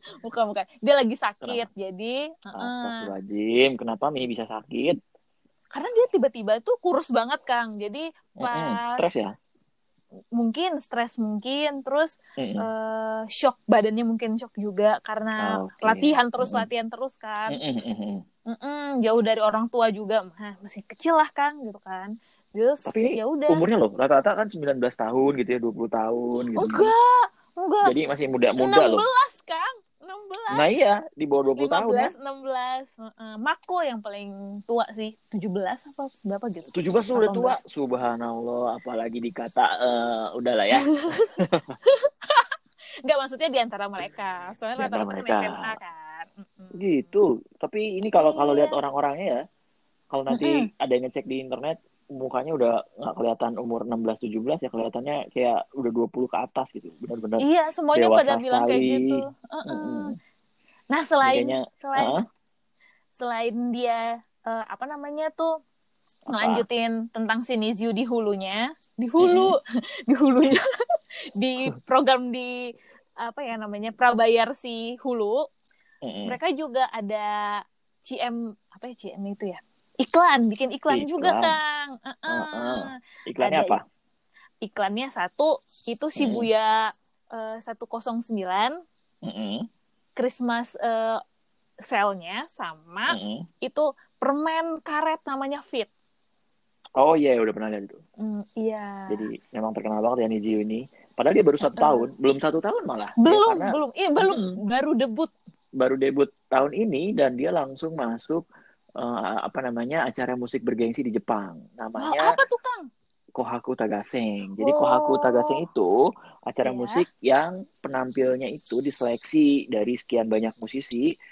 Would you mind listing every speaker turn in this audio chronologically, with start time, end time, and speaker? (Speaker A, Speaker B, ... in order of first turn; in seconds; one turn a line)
Speaker A: 0.2-3.1
Speaker B: 1.4-1.7
Speaker B: 2.5-5.0
Speaker A: 5.7-9.1
Speaker B: 8.4-9.3
Speaker A: 10.4-17.6
Speaker B: 12.4-12.7
Speaker B: 15.4-16.7
Speaker B: 17.5-18.2
Speaker A: 18.5-23.6
Speaker B: 22.9-26.9
Speaker A: 26.6-27.9
Speaker B: 27.8-29.1
Speaker A: 28.6-30.6
Speaker B: 30.5-32.1
Speaker A: 31.6-37.6
Speaker B: 36.7-41.7
Speaker A: 40.8-41.3
Speaker A: 41.9-42.5
Speaker A: 43.0-46.9
Speaker B: 44.8-45.8
Speaker B: 46.7-49.4
Speaker A: 48.2-48.8
Speaker B: 50.1-59.1
Speaker A: 50.3-50.7
Speaker A: 57.4-60.1
Speaker B: 59.7-60.1
Speaker A: 60.9-62.2
Speaker B: 61.2-62.2
Speaker A: 63.2-65.6
Speaker A: 66.3-70.7
Speaker B: 66.3-66.7
Speaker B: 69.2-69.6
Speaker A: 71.4-72.6
Speaker A: 73.2-75.4
Speaker B: 76.0-76.4
Speaker A: 76.3-83.8
Speaker B: 80.9-81.6
Speaker B: 82.3-83.8
Speaker A: 84.6-88.8
Speaker B: 86.2-86.5
Speaker B: 89.2-89.7
Speaker A: 90.2-91.2
Speaker A: 91.8-95.9
Speaker B: 93.1-93.5
Speaker B: 97.0-98.0
Speaker A: 98.2-99.3
Speaker B: 99.1-104.6
Speaker A: 101.8-102.1
Speaker A: 103.2-105.3
Speaker B: 105.8-108.4
Speaker B: 109.0-112.4
Speaker A: 112.0-112.8
Speaker B: 113.3-116.0
Speaker A: 114.6-115.6
Speaker B: 116.5-121.2
Speaker A: 116.6-117.1